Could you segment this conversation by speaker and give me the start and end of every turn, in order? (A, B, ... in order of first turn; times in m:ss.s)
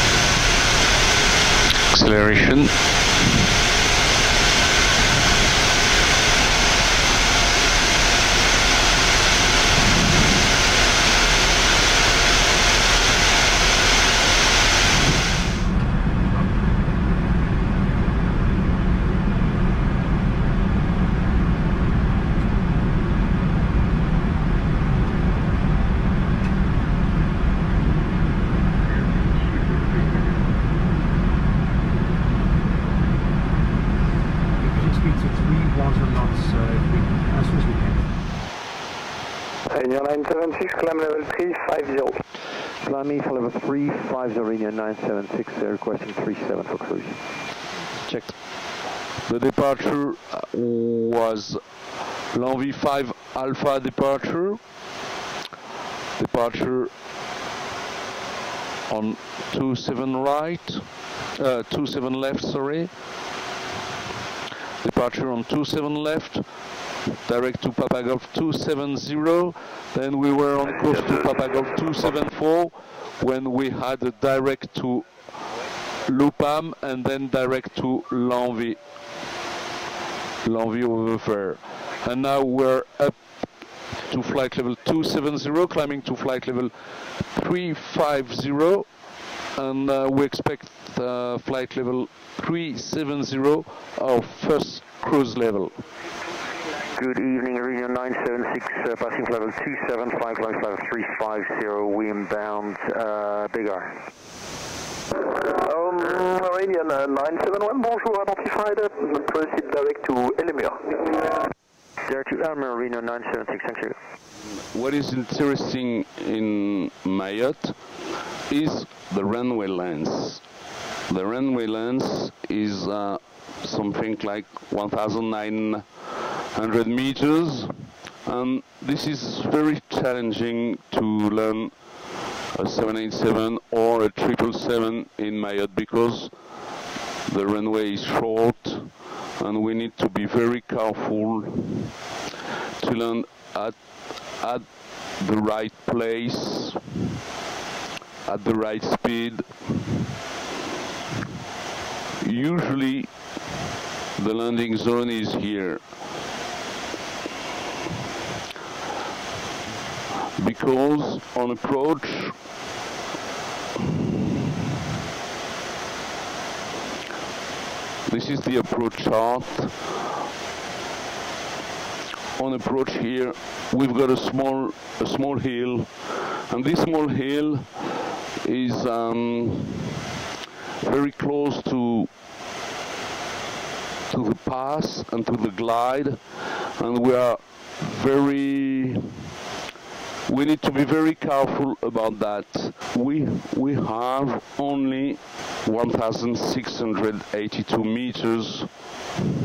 0:01.9-0:02.7 A
0:39.7-0:42.2 B
0:42.8-0:47.2 C
0:49.3-0:51.6 A
0:52.3-0:54.6 A
0:56.2-0:56.9 A
0:58.9-1:02.9 A
1:04.8-1:06.5 A
1:07.2-1:15.3 A
1:16.0-1:18.8 A
1:20.4-1:23.5 A
1:24.1-1:26.8 A
1:27.3-1:28.9 A
1:29.6-1:35.8 A
1:37.0-1:44.0 C
1:45.4-1:51.1 B
1:52.1-1:54.0 C
1:54.7-2:00.4 A
2:01.1-2:11.8 A
2:12.5-2:16.3 A
2:17.3-2:21.9 A
2:22.8-2:26.8 A
2:28.2-2:30.0 A
2:32.2-2:33.1 A
2:34.2-2:35.9 A
2:40.4-2:42.4 A
2:48.1-2:50.0 A
2:52.4-2:59.9 A
3:00.8-3:02.1 A
3:04.1-3:09.1 A
3:10.3-3:18.7 A